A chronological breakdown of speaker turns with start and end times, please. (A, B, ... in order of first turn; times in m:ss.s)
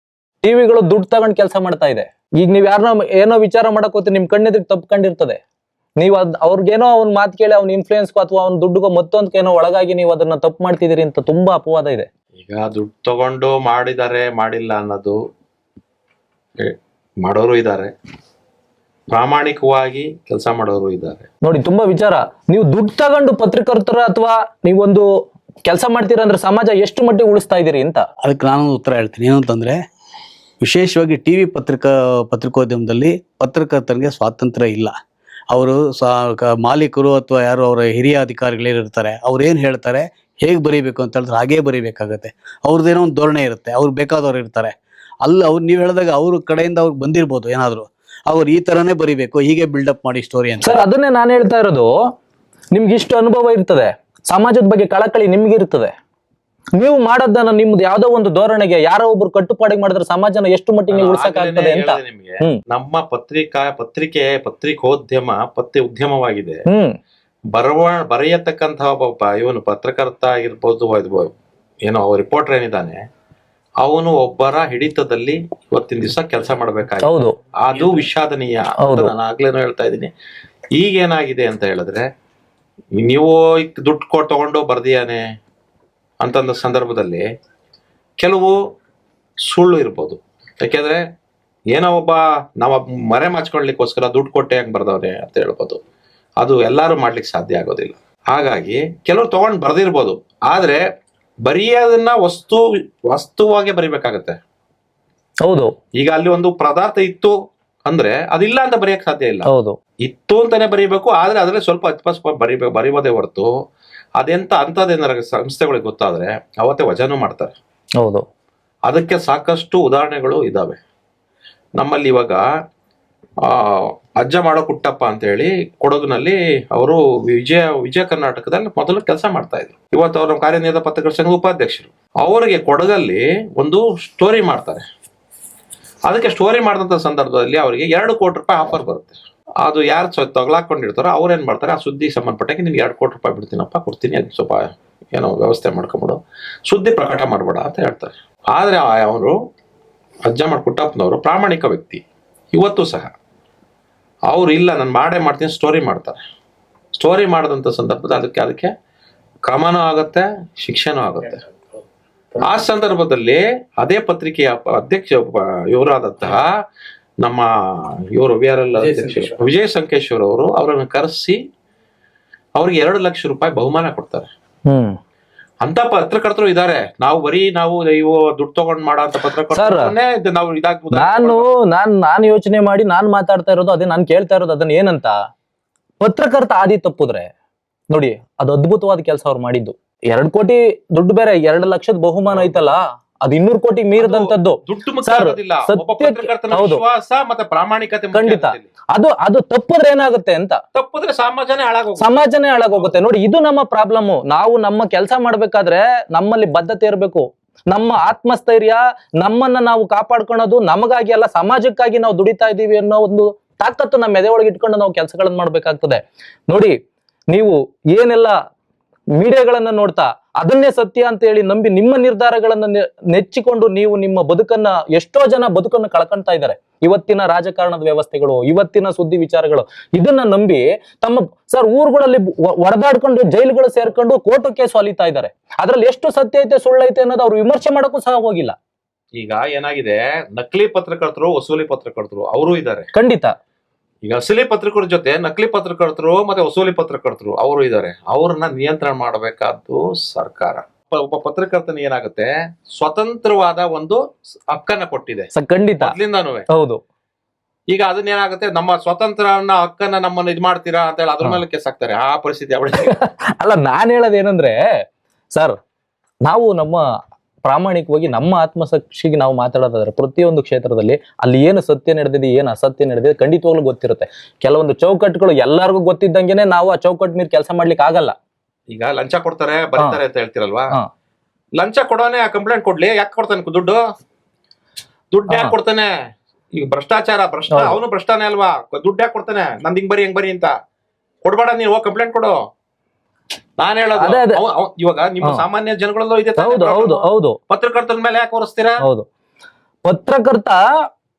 0:00.4-0:05.4 A
0:06.0-0:12.1 A
0:12.4-0:15.2 B
0:16.6-0:17.9 B
0:19.1-0:21.3 B
0:21.4-0:25.0 A
0:25.6-0:28.0 A
0:28.2-0:29.8 C
0:30.6-0:34.9 C
0:35.5-0:50.8 C
0:50.6-0:51.9 A
0:52.7-0:55.9 A
0:56.8-1:02.6 A
1:00.9-1:06.6 B
1:06.7-1:06.9 A
1:07.5-1:11.3 B
1:11.8-1:13.0 B
1:13.8-1:20.1 B
1:17.0-1:17.3 A
1:17.8-1:18.0 C
1:18.8-1:19.1 A
1:20.8-1:22.1 B
1:23.0-1:25.2 B
1:26.2-1:27.2 B
1:28.2-1:28.6 B
1:29.5-1:31.0 B
1:31.7-1:35.8 B
1:36.4-1:40.8 B
1:41.4-1:44.4 B
1:45.4-1:45.7 A
1:46.0-1:47.3 B
1:47.8-1:49.5 B
1:49.5-1:49.8 A
1:50.0-1:53.5 B
1:54.2-1:57.6 B
1:58.9-2:00.8 B
2:01.8-2:02.4 B
2:03.4-2:14.8 B
2:16.1-2:29.4 B
2:30.2-2:32.0 B
2:32.5-2:33.1 B
2:34.3-2:36.2 B
2:37.0-2:38.7 B
2:39.5-2:41.4 B
2:42.4-2:46.5 B
2:47.2-2:51.4 B
2:48.8-2:49.4 C
2:52.6-2:54.3 B
2:54.7-2:55.0 A
2:55.6-3:01.5 B
2:59.5-2:59.9 A
3:00.9-3:05.1 A
3:06.0-3:07.3 A
3:07.9-3:16.8 A
3:12.3-3:12.6 B
3:14.0-3:18.7 B
3:18.1-3:20.6 A
3:20.8-3:22.2 B
3:22.0-3:36.7 A
3:37.3-3:38.3 A
3:39.2-3:58.6 A
3:59.2-4:02.9 B
4:02.9-4:03.3 A
4:04.0-4:15.3 B
4:15.3-4:15.9 A
4:15.8-4:16.5 B
4:16.5-4:16.8 A
4:17.7-4:23.0 B
4:22.8-4:24.6 A
4:26.2-4:26.8 A
4:27.4-4:38.2 A
4:38.7-4:40.7 B
4:41.6-4:43.8 B
4:45.1-4:45.9 B
4:45.3-4:45.5 A
4:46.5-4:50.5 B
4:47.5-4:47.8 A
4:51.2-4:52.4 B
4:53.6-4:58.8 B
4:54.0-4:54.4 A
4:56.4-4:57.4 A
4:59.8-5:00.6 A